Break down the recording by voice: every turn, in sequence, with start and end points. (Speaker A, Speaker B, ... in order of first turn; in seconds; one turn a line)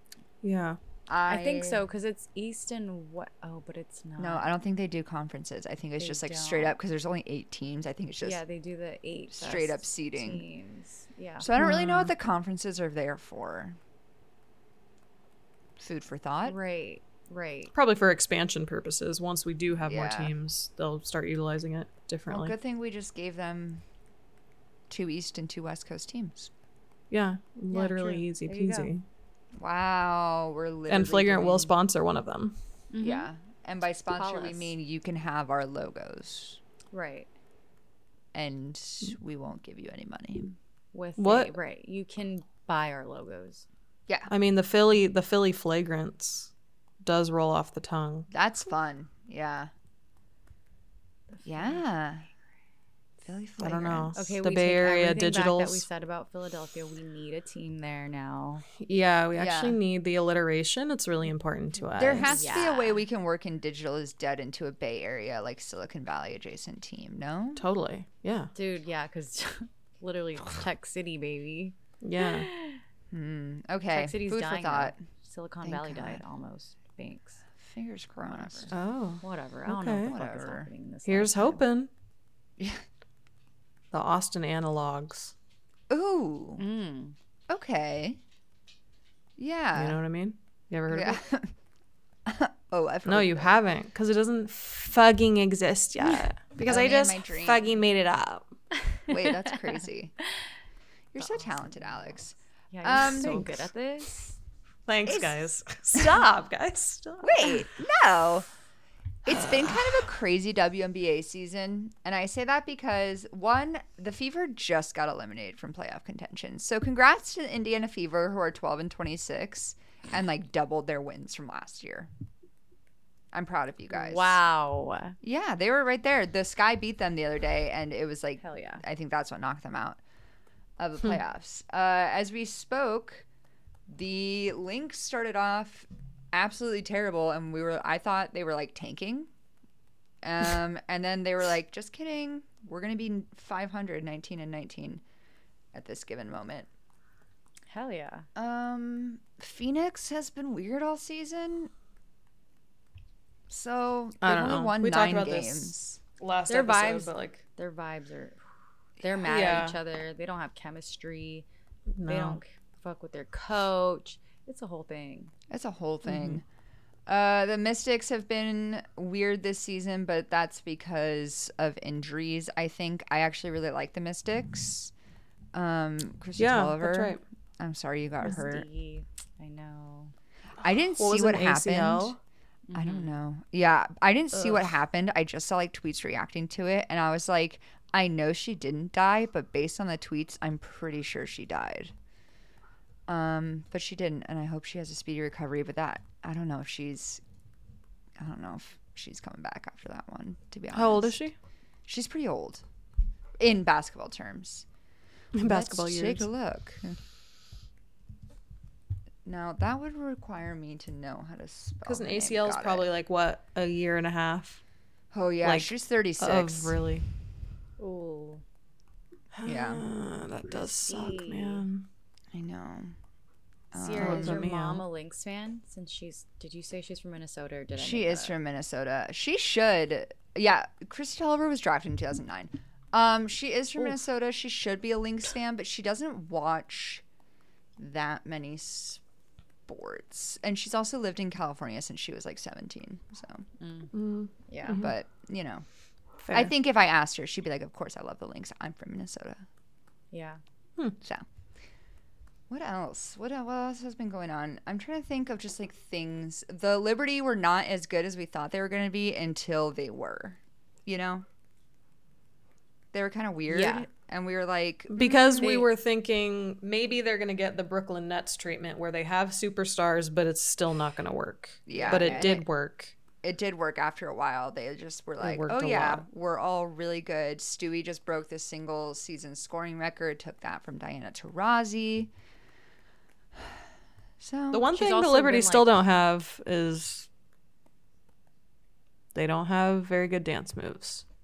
Speaker A: 0.4-0.8
Speaker B: 1.1-1.8
Speaker C: 1.3-4.5
Speaker B: 4.2-8.4
Speaker C: 6.0-6.8
Speaker C: 8.2-11.5
Speaker B: 9.3-10.4
Speaker B: 11.4-13.8
Speaker A: 11.6-12.1
Speaker B: 15.8-16.6
Speaker C: 16.4-17.7
Speaker A: 17.7-22.5
Speaker B: 19.8-20.3
Speaker B: 22.3-23.8
Speaker B: 24.9-26.5
Speaker A: 27.1-29.0
Speaker C: 27.7-28.9
Speaker B: 29.6-31.7
Speaker A: 30.9-32.5
Speaker C: 32.9-33.3
Speaker B: 33.0-36.6
Speaker C: 34.1-34.7
Speaker C: 36.9-37.3
Speaker B: 38.3-40.5
Speaker C: 40.9-43.6
Speaker A: 41.2-41.5
Speaker A: 44.3-46.5
Speaker A: 47.0-48.3
Speaker B: 48.3-49.7
Speaker C: 51.3-51.8
Speaker B: 51.4-52.3
Speaker B: 53.2-54.2
Speaker A: 53.6-55.8
Speaker C: 54.1-58.6
Speaker A: 58.8-62.6
Speaker B: 59.3-59.8
Speaker B: 62.0-67.6
Speaker C: 62.2-63.0
Speaker A: 67.5-68.5
Speaker C: 68.5-72.8
Speaker A: 72.0-72.5
Speaker B: 73.1-75.0
Speaker C: 73.9-77.4
Speaker B: 75.6-76.2
Speaker B: 77.6-78.7
Speaker C: 78.3-81.6
Speaker A: 78.7-80.1
Speaker B: 80.0-80.7
Speaker A: 81.0-81.9
Speaker B: 82.6-82.8
Speaker A: 83.9-85.3
Speaker B: 85.9-86.6
Speaker C: 86.6-87.1
Speaker B: 87.5-88.2
Speaker B: 89.4-90.0
Speaker A: 89.7-91.2
Speaker B: 90.9-91.5
Speaker B: 92.2-93.5
Speaker A: 93.0-98.5
Speaker B: 96.6-97.7
Speaker C: 98.9-99.8
Speaker B: 99.1-100.1
Speaker B: 101.1-103.4
Speaker C: 101.2-102.0
Speaker C: 102.7-104.4
Speaker A: 103.0-103.7
Speaker A: 104.9-107.6
Speaker B: 105.0-105.4
Speaker B: 105.9-106.3
Speaker B: 107.2-108.5
Speaker B: 109.2-122.1
Speaker B: 123.3-124.4
Speaker C: 123.9-125.1
Speaker B: 125.2-130.0
Speaker C: 128.4-128.8
Speaker B: 130.8-133.2
Speaker B: 133.9-139.3
Speaker B: 140.2-145.0
Speaker B: 145.7-146.7
Speaker C: 147.7-148.2
Speaker B: 148.3-151.7
Speaker B: 153.5-156.0
Speaker A: 154.2-157.4
Speaker C: 156.5-158.4
Speaker C: 159.0-161.4
Speaker A: 159.2-159.8
Speaker A: 161.9-162.4
Speaker C: 162.0-165.3
Speaker B: 165.5-166.4
Speaker A: 166.1-166.4
Speaker B: 167.1-174.9
Speaker B: 175.5-178.7
Speaker A: 176.4-177.2
Speaker C: 178.2-180.1
Speaker B: 180.6-182.2
Speaker A: 180.9-182.2
Speaker C: 182.7-183.2
Speaker B: 182.7-191.9
Speaker B: 193.1-197.2
Speaker B: 198.2-201.2
Speaker A: 200.7-201.3
Speaker B: 201.9-202.6
Speaker B: 203.4-204.7
Speaker A: 205.3-206.2
Speaker B: 205.4-207.0
Speaker B: 209.2-212.8
Speaker A: 211.8-214.6
Speaker B: 215.1-216.7
Speaker A: 215.4-217.0
Speaker C: 217.8-218.4
Speaker A: 219.3-221.8
Speaker B: 219.4-219.8
Speaker C: 220.8-221.7
Speaker B: 222.3-222.9
Speaker B: 223.7-224.4
Speaker C: 223.7-228.3
Speaker A: 223.9-224.8
Speaker B: 227.8-237.0
Speaker B: 237.8-239.0
Speaker B: 239.7-243.4
Speaker C: 243.6-243.9
Speaker A: 243.9-244.9
Speaker C: 244.5-244.8
Speaker B: 244.7-245.6
Speaker A: 246.2-246.5
Speaker B: 246.3-249.4
Speaker C: 250.1-250.4
Speaker B: 252.5-261.2
Speaker B: 262.9-265.6
Speaker C: 263.5-263.9
Speaker A: 264.9-272.9
Speaker C: 265.0-265.7
Speaker B: 271.7-272.4
Speaker C: 271.7-272.4
Speaker B: 273.2-282.1
Speaker A: 275.2-276.0
Speaker B: 284.2-284.7
Speaker A: 284.5-287.1
Speaker C: 284.7-285.7
Speaker A: 289.1-291.0